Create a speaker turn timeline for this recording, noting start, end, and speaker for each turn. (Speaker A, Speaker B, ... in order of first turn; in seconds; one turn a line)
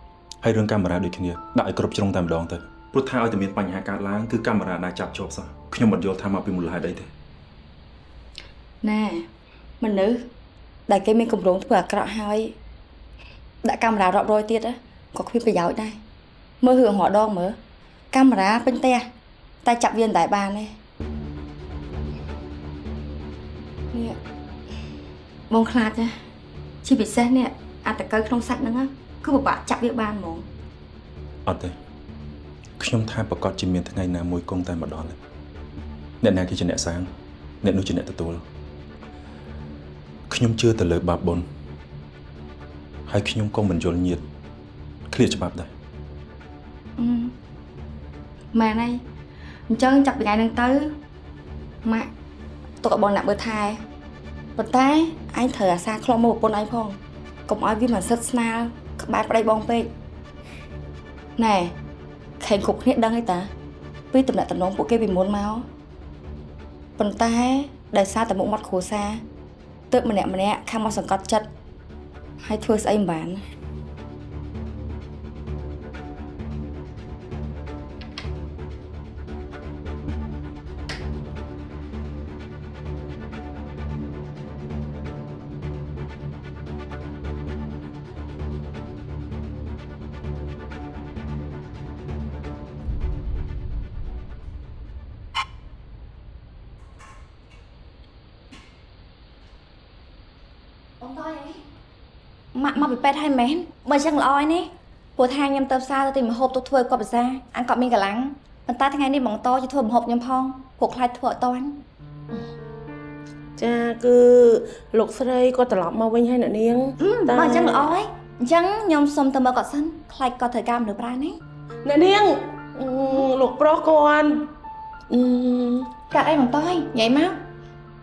Speaker A: 0.4-7.1
Speaker B: 8.8-9.3
Speaker B: 9.8-10.3
Speaker B: 10.9-12.6
Speaker B: 13.6-16.0
Speaker B: 16.6-17.6
Speaker B: 18.1-19.1
Speaker B: 19.6-20.8
Speaker B: 23.9-24.2
Speaker B: 25.5-26.2
Speaker B: 26.8-30.5
Speaker A: 31.4-31.7
Speaker A: 32.8-35.2
Speaker A: 36.2-37.1
Speaker A: 37.6-38.4
Speaker A: 40.3-41.5
Speaker A: 43.1-44.2
Speaker A: 45.1-45.7
Speaker B: 47.0-47.4
Speaker B: 48.5-49.0
Speaker B: 49.7-51.0
Speaker B: 51.8-52.1
Speaker B: 52.8-53.8
Speaker B: 54.6-59.9
Speaker B: 61.4-61.7
Speaker B: 62.4-63.5
Speaker B: 64.1-65.7
Speaker B: 67.0-69.2
Speaker B: 69.9-71.5
Speaker B: 72.4-73.4
Speaker C: 101.0-101.6
Speaker C: 102.5-111.8
Speaker D: 113.6-117.9
Speaker C: 117.0-121.4
Speaker D: 121.8-124.5
Speaker D: 125.1-125.9
Speaker C: 126.1-127.4